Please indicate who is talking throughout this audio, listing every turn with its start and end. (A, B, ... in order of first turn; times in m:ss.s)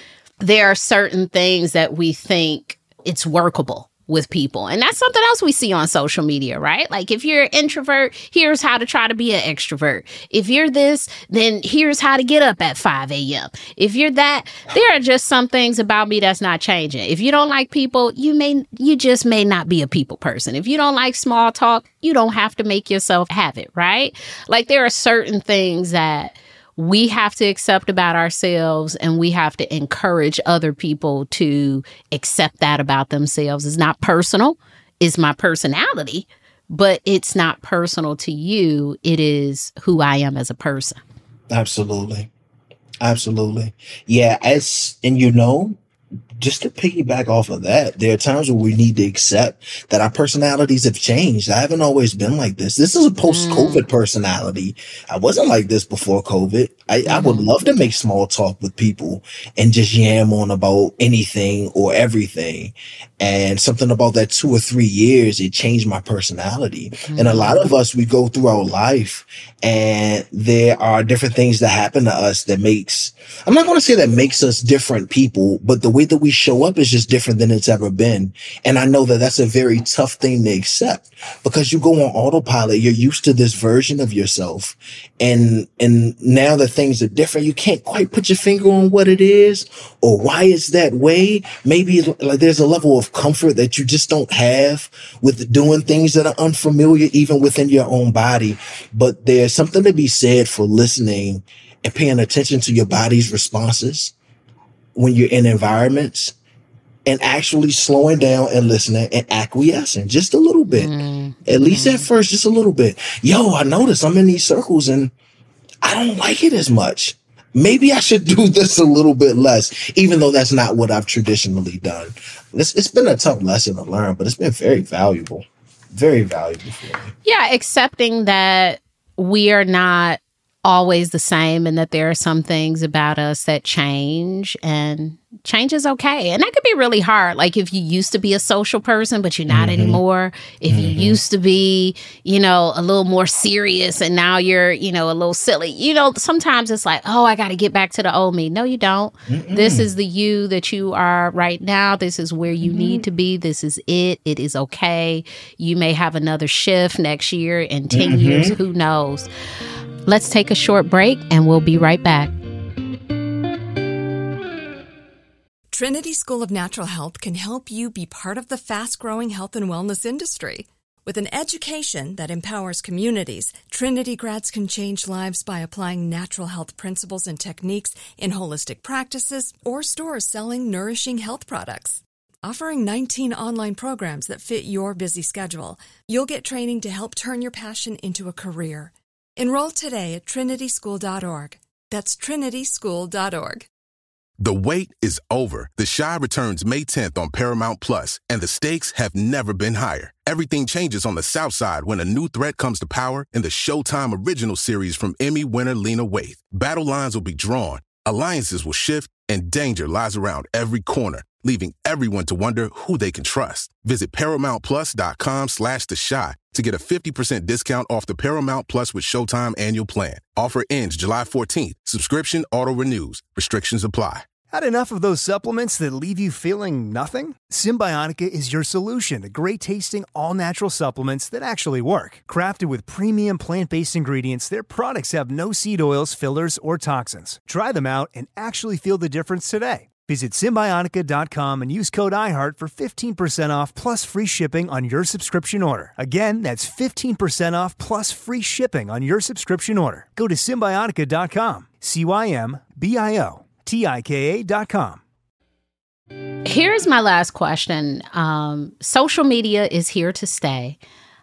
0:00.4-0:41.0 A
0:41.5-0:42.3 B
0:43.0-0:45.8 B
0:46.4-1:44.1 B
0:53.3-0:53.8 A
0:57.1-0:57.5 A
1:07.1-1:07.6 A
1:45.0-1:46.4 B
1:47.1-1:50.9 B
1:50.8-1:52.1 A
1:51.5-1:55.1 B
1:55.8-2:07.1 B
2:07.2-2:39.3 A
2:19.5-2:20.0 B
2:20.7-2:21.2 B
2:29.3-2:29.9 B
2:32.6-2:33.0 B
2:37.9-2:38.6 B
2:40.1-2:42.3 A
2:45.7-3:13.7 C
3:14.4-3:44.3 D
3:44.5-4:15.0 E
4:16.5-4:20.8 A